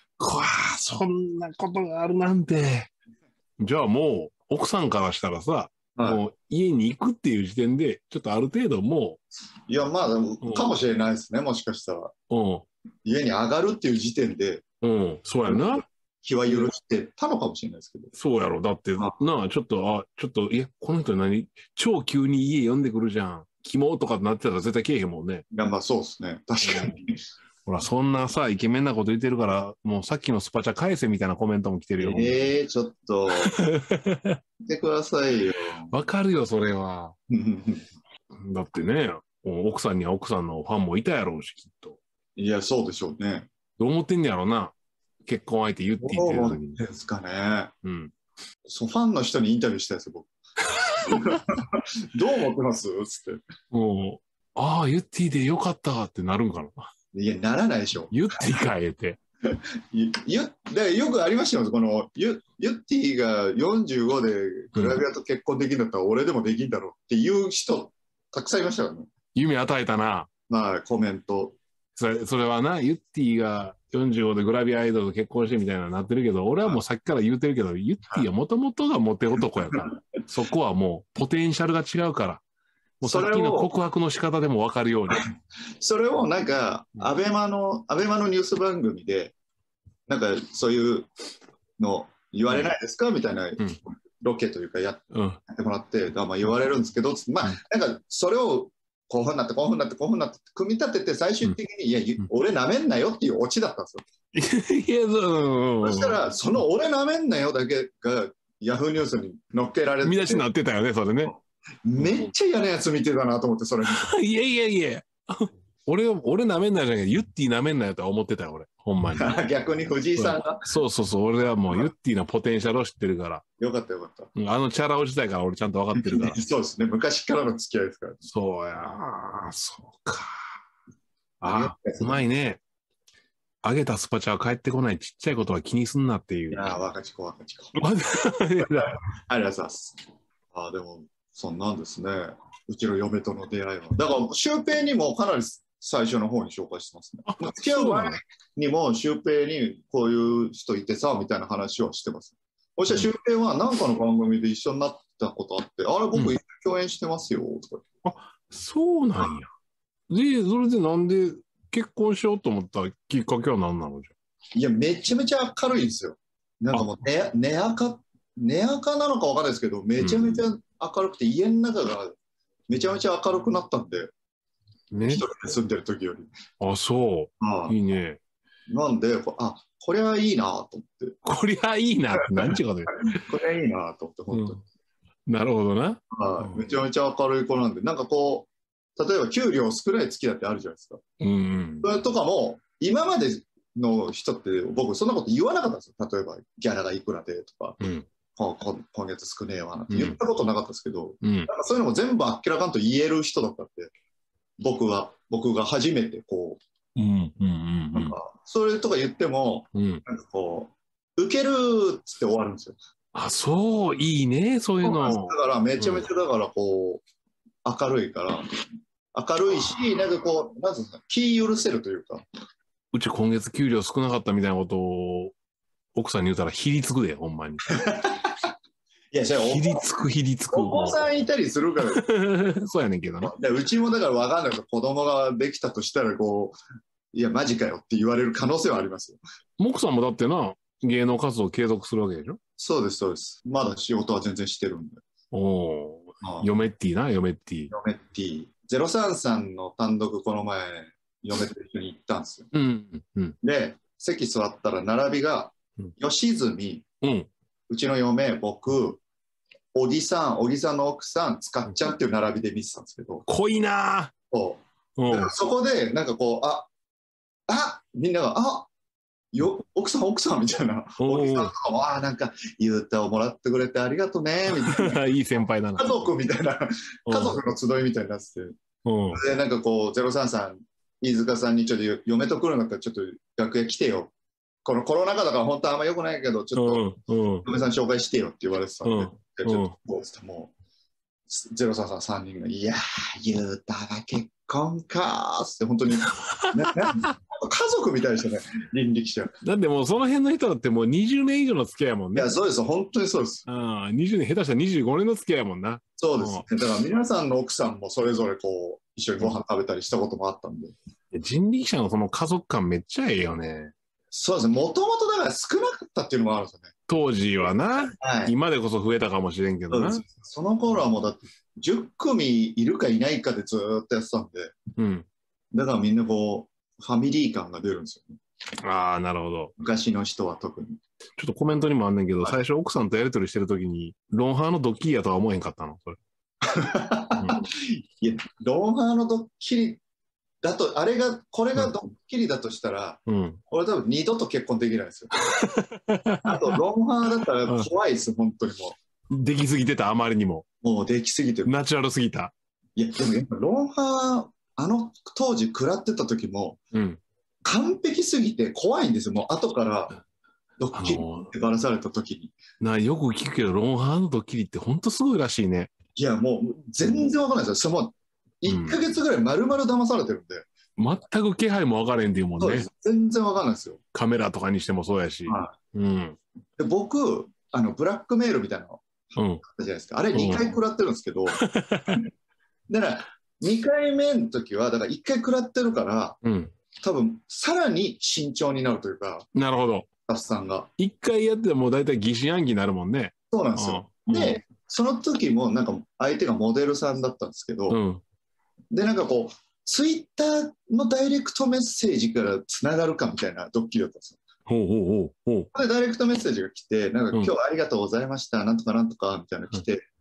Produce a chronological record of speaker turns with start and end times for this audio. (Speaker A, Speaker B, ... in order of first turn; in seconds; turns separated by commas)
Speaker A: 0.2-2.9, Speaker A: 3.6-9.2, Speaker B: 6.0-6.2, Speaker B: 9.7-12.1, Speaker A: 10.4-10.7, Speaker A: 12.3-12.7, Speaker B: 13.1-14.6, Speaker A: 14.8-15.8, Speaker B: 15.4-18.1, Speaker A: 18.1-25.4, Speaker B: 25.5-27.2, Speaker A: 26.6-27.0, Speaker A: 27.7-32.4, Speaker B: 32.0-33.5, Speaker A: 33.4-34.4, Speaker B: 34.6-35.9, Speaker A: 35.9-37.2, Speaker B: 37.3-37.9, Speaker A: 38.3-42.0, Speaker B: 42.4-43.5, Speaker A: 43.8-44.7, Speaker A: 45.3-46.8, Speaker B: 46.0-47.7, Speaker A: 47.8-48.1, Speaker B: 48.7-50.3, Speaker A: 50.7-51.5, Speaker B: 51.0-53.4, Speaker A: 53.7-56.9, Speaker B: 57.1-58.1, Speaker A: 58.1-59.2, Speaker B: 59.5-69.1, Speaker A: 64.8-65.0, Speaker A: 69.3-70.3, Speaker B: 70.5-71.6, Speaker A: 72.0-82.4, Speaker A: 83.0-85.3, Speaker B: 83.0-83.7, Speaker B: 85.8-89.3, Speaker B: 90.1-91.1, Speaker B: 91.8-104.0, Speaker A: 95.1-95.4, Speaker A: 104.3-106.2, Speaker B: 105.8-110.5, Speaker A: 110.0-111.3, Speaker B: 111.8-114.1, Speaker A: 112.0-112.3, Speaker A: 113.9-119.4, Speaker B: 119.2-120.7, Speaker A: 120.2-123.4, Speaker B: 123.6-124.3, Speaker A: 124.3-126.4, Speaker B: 126.0-128.2, Speaker A: 128.3-130.5, Speaker A: 131.4-132.6, Speaker B: 131.5-132.2, Speaker A: 133.6-136.8, Speaker B: 136.5-137.8, Speaker A: 137.8-139.0, Speaker B: 138.6-140.0, Speaker B: 140.5-157.8, Speaker A: 147.2-148.2, Speaker A: 158.0-159.5, Speaker A: 160.1-164.2, Speaker B: 164.6-172.2, Speaker A: 170.0-170.4, Speaker B: 172.7-174.1, Speaker A: 174.9-175.3, Speaker B: 175.1-176.3, Speaker A: 176.6-178.2, Speaker B: 177.4-177.8, Speaker B: 178.7-181.2, Speaker A: 181.2-183.2, Speaker B: 183.1-184.6, Speaker A: 184.3-184.6, Speaker A: 185.3-186.7, Speaker B: 186.1-191.0, Speaker A: 191.2-191.9, Speaker B: 191.8-197.8, Speaker A: 197.8-198.1, Speaker B: 198.4-203.9, Speaker A: 199.9-200.2, Speaker A: 201.2-201.5, Speaker B: 204.6-206.6, Speaker A: 207.0-208.2, Speaker B: 207.9-212.8, Speaker A: 209.7-210.0, Speaker A: 213.2-216.1, Speaker B: 214.8-217.1, Speaker B: 217.7-218.5, Speaker B: 219.1-222.2, Speaker A: 222.9-225.3, Speaker A: 225.9-227.6, Speaker B: 227.7-228.5, Speaker B: 229.1-229.8, Speaker A: 229.4-231.1, Speaker B: 230.5-232.0, Speaker A: 231.8-233.3, Speaker B: 233.2-236.6, Speaker B: 237.1-239.2, Speaker A: 239.6-242.4, Speaker B: 242.6-245.0, Speaker A: 245.3-247.7, Speaker B: 246.2-246.5, Speaker B: 247.7-252.5, Speaker A: 252.5-253.4, Speaker B: 253.4-256.9, Speaker A: 257.0-257.3, Speaker B: 257.7-259.0, Speaker B: 259.7-263.2, Speaker A: 263.3-264.1, Speaker B: 264.3-266.7, Speaker A: 265.0-265.3, Speaker B: 267.5-268.7, Speaker B: 269.3-275.1, Speaker A: 271.0-271.5, Speaker A: 274.5-276.1, Speaker B: 275.8-278.6, Speaker A: 277.1-277.4, Speaker A: 278.9-279.2, Speaker B: 279.1-284.1, Speaker B: 284.6-286.8, Speaker A: 286.6-287.5, Speaker B: 287.4-290.5, Speaker A: 288.8-289.8, Speaker B: 291.3-299.3, Speaker A: 296.0-297.1, Speaker A: 299.4-302.3, Speaker B: 302.1-303.4, Speaker A: 303.5-306.5, Speaker B: 306.0-310.7, Speaker A: 311.1-313.7, Speaker B: 314.1-316.7, Speaker A: 316.9-320.0, Speaker B: 318.0-318.3, Speaker B: 319.7-324.6, Speaker A: 324.8-325.1, Speaker B: 325.5-328.2, Speaker A: 328.6-329.6, Speaker B: 329.6-330.8, Speaker A: 331.2-336.0, Speaker B: 336.4-339.8, Speaker A: 337.2-337.4, Speaker B: 340.4-345.1, Speaker A: 343.1-343.4, Speaker A: 345.2-346.6, Speaker B: 346.2-348.8, Speaker A: 349.1-350.5, Speaker B: 350.6-351.5, Speaker A: 351.5-352.3, Speaker B: 352.8-356.6, Speaker A: 356.7-357.0, Speaker B: 357.4-360.0, Speaker B: 360.6-362.4, Speaker A: 360.7-361.3, Speaker A: 362.6-365.7, Speaker B: 366.0-370.5, Speaker A: 368.5-368.8, Speaker A: 370.8-372.7, Speaker B: 372.4-373.8, Speaker A: 373.9-376.2, Speaker B: 375.3-375.5, Speaker B: 376.6-378.9, Speaker A: 379.2-379.4, Speaker B: 379.4-381.4, Speaker A: 380.1-380.5, Speaker A: 381.3-382.0, Speaker B: 382.7-386.2, Speaker A: 386.2-386.5, Speaker B: 386.8-389.3, Speaker A: 389.3-389.9, Speaker B: 390.1-390.7, Speaker A: 390.8-394.4, Speaker B: 393.3-397.8, Speaker A: 397.7-398.0, Speaker B: 398.7-404.2, Speaker A: 404.5-405.5, Speaker B: 405.5-409.9